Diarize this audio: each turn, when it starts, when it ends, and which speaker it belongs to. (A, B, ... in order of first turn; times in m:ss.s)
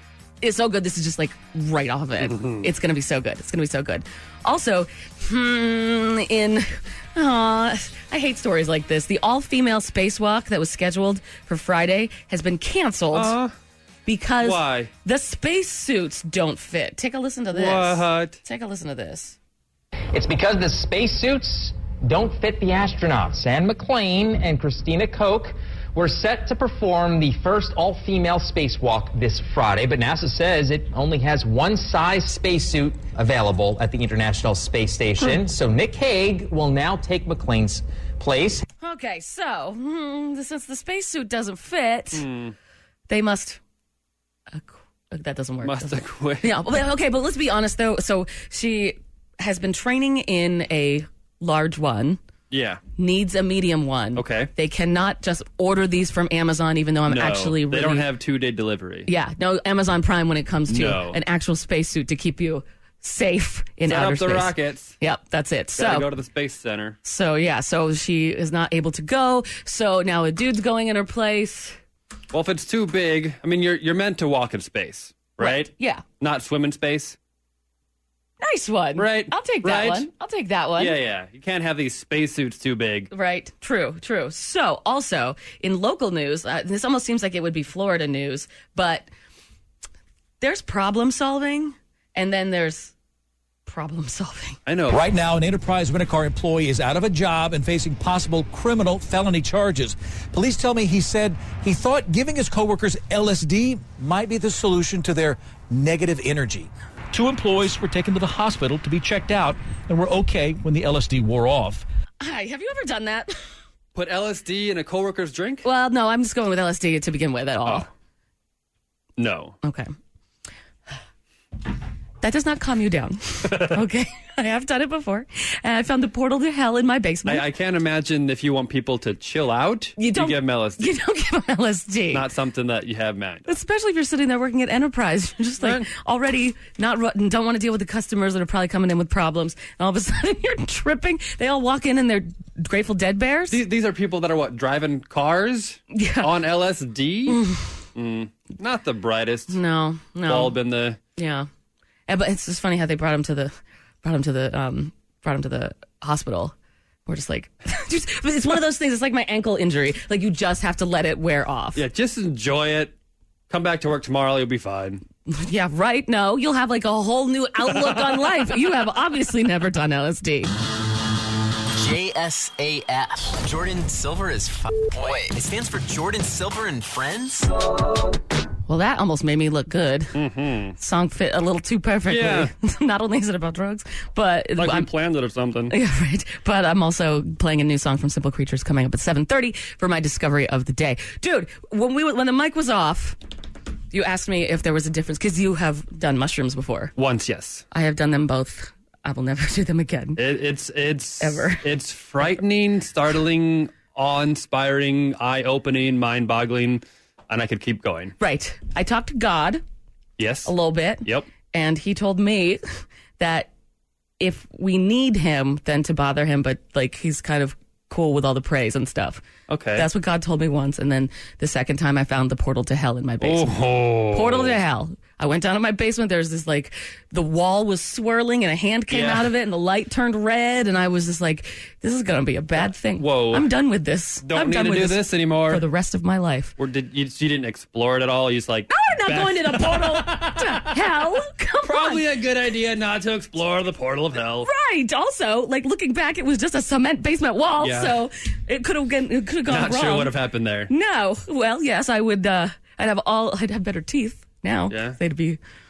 0:00.4-0:13.3 A
0:02.2-0:02.7 B
0:13.1-0:13.5 B
0:14.0-0:19.4 A
0:14.4-0:14.9 B
0:17.5-0:18.4 B
0:20.1-0:38.6 C
0:38.8-0:42.2 A
0:42.1-0:42.5 B
0:43.1-0:43.6 A
0:44.5-0:52.2 A
0:45.6-0:46.5 B
0:52.5-0:52.8 B
0:53.0-0:58.1 A
0:54.1-0:54.5 B
0:57.1-0:59.1 B
0:59.1-1:06.1 A
1:00.7-1:01.2 B
1:03.9-1:05.0 B
1:05.8-1:07.0 B
1:07.0-1:11.8 A
1:12.3-1:17.2 B
1:15.4-1:16.0 A
1:18.4-1:21.0 A
1:19.0-1:20.1 B
1:20.8-1:23.1 B
1:23.1-1:29.1 A
1:30.4-1:32.9 A
1:33.6-1:34.6 A
1:34.6-1:35.0 B
1:34.9-1:51.8 D
1:52.2-1:53.3 A
1:53.9-1:55.6 B
1:55.6-1:57.9 A
1:59.2-1:59.6 B
1:59.6-1:59.9 A
2:02.2-2:07.4 A
2:03.5-2:03.8 B
2:07.2-2:10.9 B
2:10.0-2:12.2 A
2:12.1-2:13.6 B
2:13.5-2:23.6 A
2:15.6-2:15.9 B
2:23.5-2:27.4 B
2:25.9-2:26.3 A
2:27.3-2:27.7 A
2:27.9-2:29.6 B
2:29.5-2:30.6 A
2:30.2-2:31.0 B
2:31.2-2:31.5 A
2:32.1-2:36.5 A
2:37.0-2:41.8 A
2:41.7-2:42.9 B
2:43.5-2:45.0 B
2:45.3-2:50.5 A
2:47.7-2:48.3 B
2:51.7-2:57.5 E
2:58.7-3:00.1 A
3:00.1-3:00.8 B
3:00.8-3:04.9 A
3:02.1-3:02.5 B
3:04.6-3:05.7 B
3:05.7-3:13.2 A
3:13.9-3:16.9 A
3:17.0-3:17.6 B
3:17.7-3:20.2 A
3:20.2-3:28.2 B
3:21.2-3:21.6 A
3:28.2-3:29.6 A
3:30.2-3:30.5 B
3:30.4-3:32.6 A
3:31.0-3:31.3 B
3:33.2-3:33.5 A
3:34.2-3:39.2 A
3:39.5-3:39.9 B
3:39.8-3:43.5 A
3:43.2-3:44.6 B
3:44.1-3:56.5 A
3:48.9-3:49.3 B
3:52.6-3:53.5 B
3:54.2-3:55.6 B
3:56.6-4:01.0 B
3:58.7-4:02.0 A
4:01.6-4:04.5 B
4:04.4-4:10.1 A
4:07.6-4:08.0 B
4:09.5-4:10.7 B
4:10.7-4:15.4 A
4:14.7-4:15.0 B